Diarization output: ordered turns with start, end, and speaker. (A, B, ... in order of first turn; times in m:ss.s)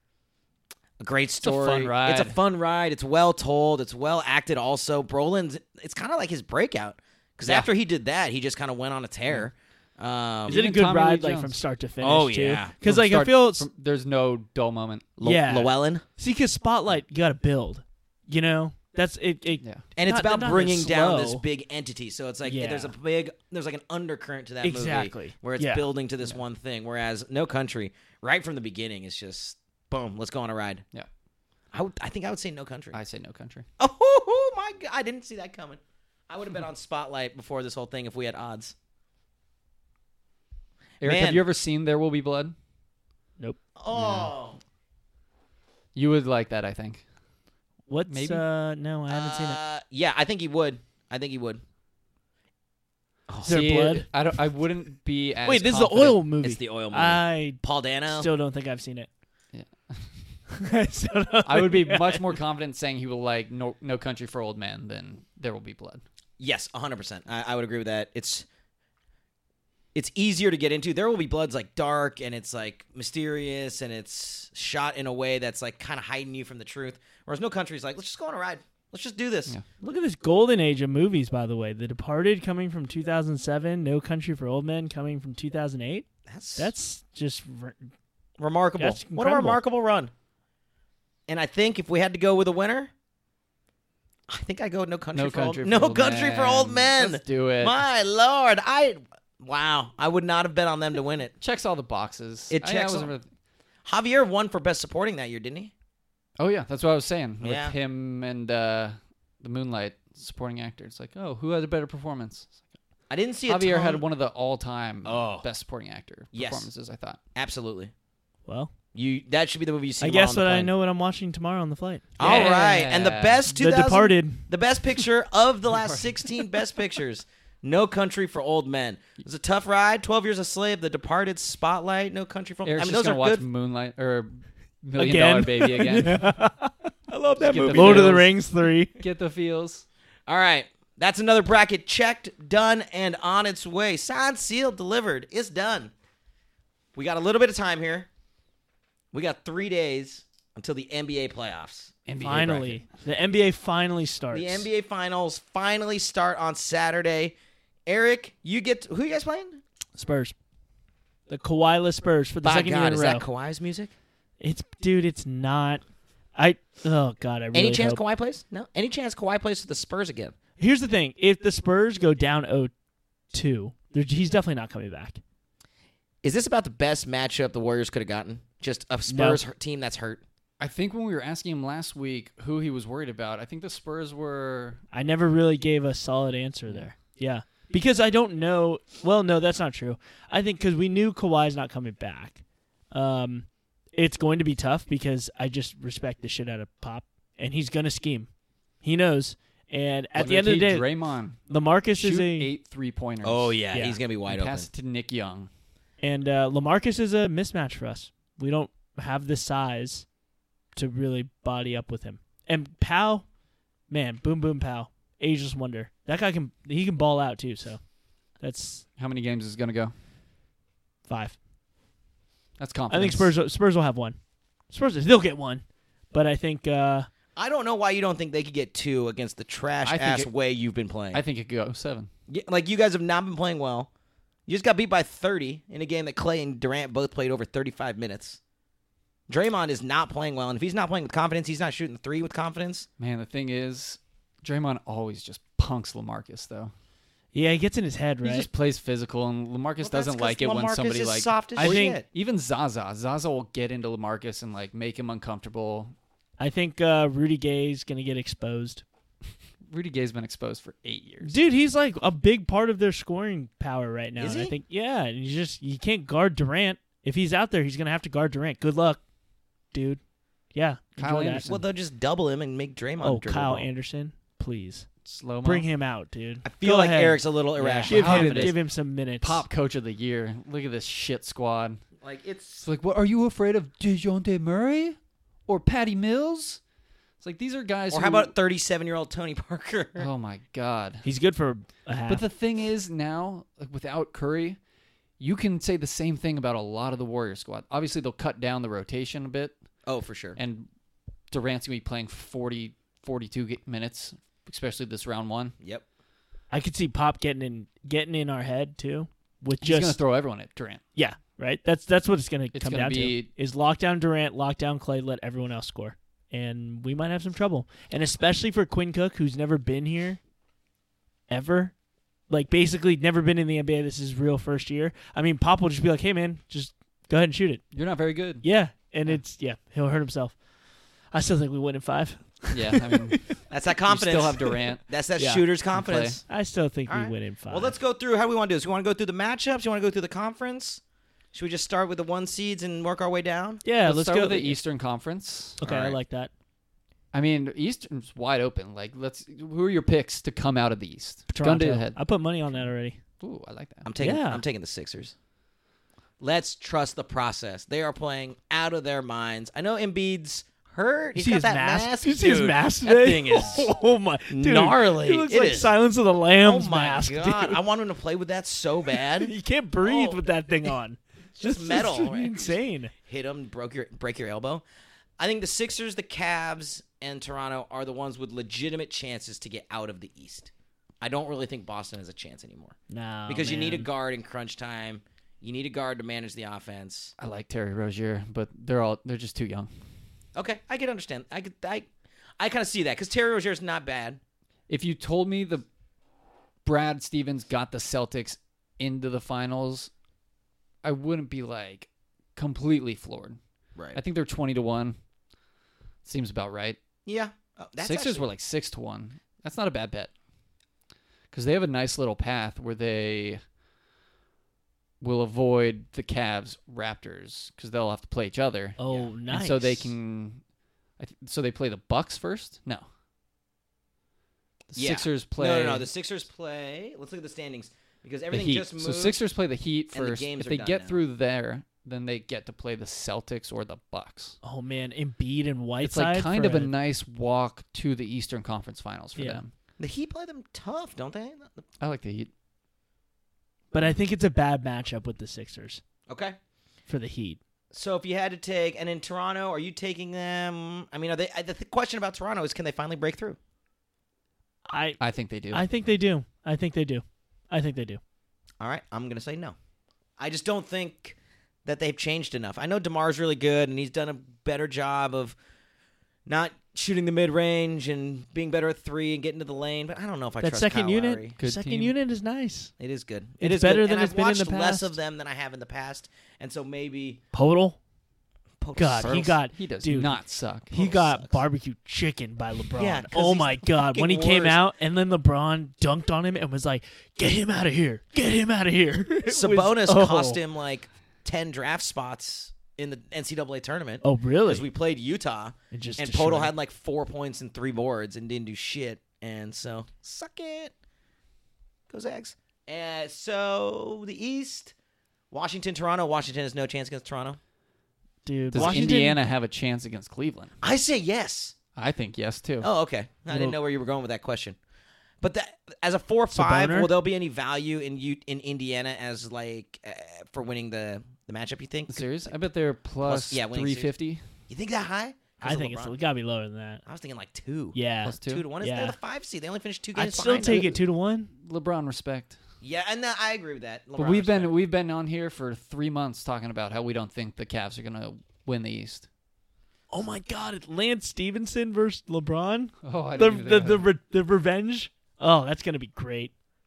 0:01.0-0:10.6 A
0:01.4-0:02.4 B
0:10.5-0:11.6 B
0:10.5-0:13.7 C
0:12.0-0:12.7 A
0:12.8-0:15.1 B
0:15.2-0:16.0 A
0:15.2-0:21.4 C
0:20.0-0:30.8 A
0:22.4-0:22.9 C
0:24.6-0:25.9 C
0:31.7-0:33.0 A
0:32.9-0:33.7 B
0:33.8-0:38.8 A
0:41.0-0:42.6 B
0:41.0-0:41.4 A
0:43.8-0:44.6 A
0:46.0-0:47.0 B
0:47.9-0:49.6 C
0:48.1-0:48.4 B
0:49.1-0:51.6 A
0:53.3-0:53.6 A
0:53.4-0:54.1 C
0:53.4-0:56.2 B
0:55.4-0:59.1 C
0:56.4-0:58.3 A
0:59.5-1:00.3 B
1:00.5-1:02.3 C
1:01.4-1:06.0 B
1:06.4-1:08.5 A
1:09.9-1:19.6 A
1:19.8-1:27.9 C
1:26.3-1:26.7 A
1:28.4-1:30.1 A
1:28.8-1:29.6 C
1:31.3-1:32.9 A
1:34.3-1:41.3 A
1:35.1-1:37.8 B
1:41.4-1:43.3 B
1:42.5-1:43.1 A
1:43.8-1:45.7 A
1:46.4-1:52.5 B
1:47.4-1:47.8 A
1:53.1-1:54.0 A
1:53.5-1:57.2 B
1:55.0-1:55.5 A
1:56.3-1:56.7 A
1:57.4-1:57.9 A
1:58.5-1:58.7 C
1:58.9-2:00.7 A
2:00.0-2:02.5 C
2:02.2-2:13.4 A
2:02.2-2:03.4 B
2:03.5-2:04.4 C
2:05.7-2:06.2 B
2:12.6-2:16.3 B
2:15.0-2:19.0 C
2:17.4-2:18.2 A
2:17.4-2:18.4 B
2:19.0-2:19.8 B
2:20.3-2:25.9 A
2:27.0-2:28.1 A
2:29.1-2:31.9 A
2:32.1-2:32.8 B
2:32.2-2:34.7 C
2:34.3-2:37.4 A
2:37.9-2:39.6 A
2:40.0-2:40.4 C
2:41.3-2:43.3 C
2:42.4-2:43.9 A
2:44.4-2:45.8 C
2:46.4-2:48.0 C
2:47.5-2:50.4 A
2:50.6-2:52.7 C
2:53.3-2:55.2 C
2:56.2-3:00.2 A
2:59.1-2:59.4 C
3:00.6-3:04.8 B
3:04.9-3:18.3 C
3:18.8-3:20.9 C
3:20.2-3:21.4 B
3:21.5-3:22.5 C
3:22.0-3:23.6 B
3:23.2-3:24.7 A
3:23.7-3:24.0 C
3:24.3-3:25.5 B
3:26.0-3:30.1 C
3:30.8-3:33.3 C
3:33.9-3:37.8 C
3:38.4-3:38.9 C
3:39.0-3:39.9 B
3:41.1-3:41.4 C
3:42.6-3:43.3 B
3:42.9-3:44.2 C
3:44.7-3:47.1 C
3:47.4-3:51.2 A
3:49.8-3:50.3 B
3:51.1-3:52.1 B
3:52.3-3:53.9 A
3:54.5-3:58.4 A
3:59.3-4:02.9 A
4:03.0-4:06.7 B
4:07.3-4:08.5 C
4:08.2-4:15.9 B
4:09.8-4:12.0 A
4:11.6-4:12.0 C
4:16.4-4:18.8 C
4:19.7-4:21.4 B
4:21.2-4:29.0 C
4:24.2-4:24.6 A
4:29.7-4:30.0 C
4:30.5-4:31.5 C
4:31.0-4:31.6 B
4:31.5-4:33.7 A
4:33.0-4:34.9 C
4:35.0-4:35.7 B
4:35.4-4:39.4 C
4:36.4-4:38.6 A
4:37.8-4:38.6 B
4:39.2-4:41.8 B
4:42.0-4:42.6 A
4:42.6-4:46.6 B
4:47.2-4:48.3 B
4:47.9-4:50.1 A
4:50.0-4:51.0 B
4:51.0-4:52.2 C
4:52.1-4:54.6 B
4:55.2-4:59.5 B
4:59.9-5:00.4 A
5:00.4-5:00.7 B
5:01.3-5:05.6 B
5:06.5-5:10.0 C
5:09.6-5:10.8 B
5:11.0-5:20.2 C
5:12.5-5:13.3 B
5:21.3-5:21.8 C
5:22.3-5:27.6 C
5:27.7-5:28.5 B
5:28.4-5:30.4 C
5:31.1-5:33.4 C
5:32.5-5:33.3 B
5:33.5-5:36.2 A
5:33.9-5:34.8 B
5:35.2-5:35.4 C
5:35.7-5:36.2 B
5:36.3-5:37.8 C
5:36.9-5:40.8 A
5:41.3-5:43.6 A
5:43.6-5:44.6 C
5:43.8-5:45.6 B
5:45.6-5:46.3 C
5:45.6-5:46.0 A
5:47.1-5:52.0 B
5:51.3-5:53.0 C
5:53.2-5:53.9 B
5:53.8-5:55.2 A
5:54.0-5:54.4 C
5:56.2-6:03.7 A
6:01.2-6:07.6 C
6:04.3-6:05.7 A
6:06.4-6:09.3 A
6:09.1-6:12.9 C
6:09.8-6:10.2 A
6:11.4-6:14.6 A
6:15.2-6:22.8 A
6:22.9-6:23.9 C
6:23.3-6:27.1 A
6:27.2-6:29.7 B
6:30.4-6:34.2 A
6:34.7-6:35.6 B
6:36.6-6:39.9 B
6:40.8-6:43.4 B
6:43.8-6:44.0 A
6:44.0-6:45.0 B
6:46.0-6:46.8 B
6:47.1-6:48.3 A
6:47.8-6:50.1 B
6:51.3-6:53.4 B
6:55.0-6:58.8 B
6:58.8-6:59.9 C
6:59.3-7:00.4 B
7:01.0-7:02.8 B
7:04.7-7:05.9 B
7:04.8-7:09.2 A
7:08.3-7:14.4 B
7:09.9-7:11.0 A
7:14.4-7:16.7 C
7:15.8-7:19.5 B
7:19.2-7:19.4 C
7:19.8-7:21.6 A
7:21.8-7:22.3 B
7:23.7-7:25.8 C
7:26.1-7:26.4 A
7:26.9-7:27.4 C
7:27.7-7:33.4 A
7:34.7-7:35.0 C
7:35.0-7:35.6 B
7:35.5-7:38.0 C
7:38.6-7:39.6 A
7:40.2-7:45.4 A
7:46.3-7:51.4 A
7:50.4-7:52.7 C
7:51.4-7:51.9 B
7:52.8-7:57.2 A
7:53.4-7:55.0 C
7:57.3-7:57.8 C
7:58.6-7:59.3 A
7:58.8-8:00.2 C
7:59.0-8:00.7 B
8:00.7-8:10.4 C
8:00.7-8:01.4 A
8:02.8-8:04.6 A
8:09.3-8:20.7 A
8:14.0-8:14.7 C
8:15.7-8:16.5 C
8:21.9-8:24.7 A
8:25.3-8:27.4 A
8:28.2-8:29.2 C
8:28.5-8:30.5 B
8:28.6-8:29.0 A
8:30.6-8:31.6 A
8:31.8-8:32.7 B
8:32.6-8:34.6 A
8:33.3-8:33.6 C
8:35.2-8:42.3 A
8:36.3-8:36.9 C
8:41.9-8:44.2 B
8:43.0-8:43.9 A
8:44.5-8:46.0 A
8:45.4-8:46.8 C
8:46.9-8:50.8 A
8:47.7-8:49.0 C
8:48.0-8:48.4 B
8:50.0-8:51.3 C
8:51.4-8:52.4 B
8:52.6-8:54.6 A
8:54.0-8:59.1 B
8:59.9-9:06.3 C
9:02.8-9:03.9 B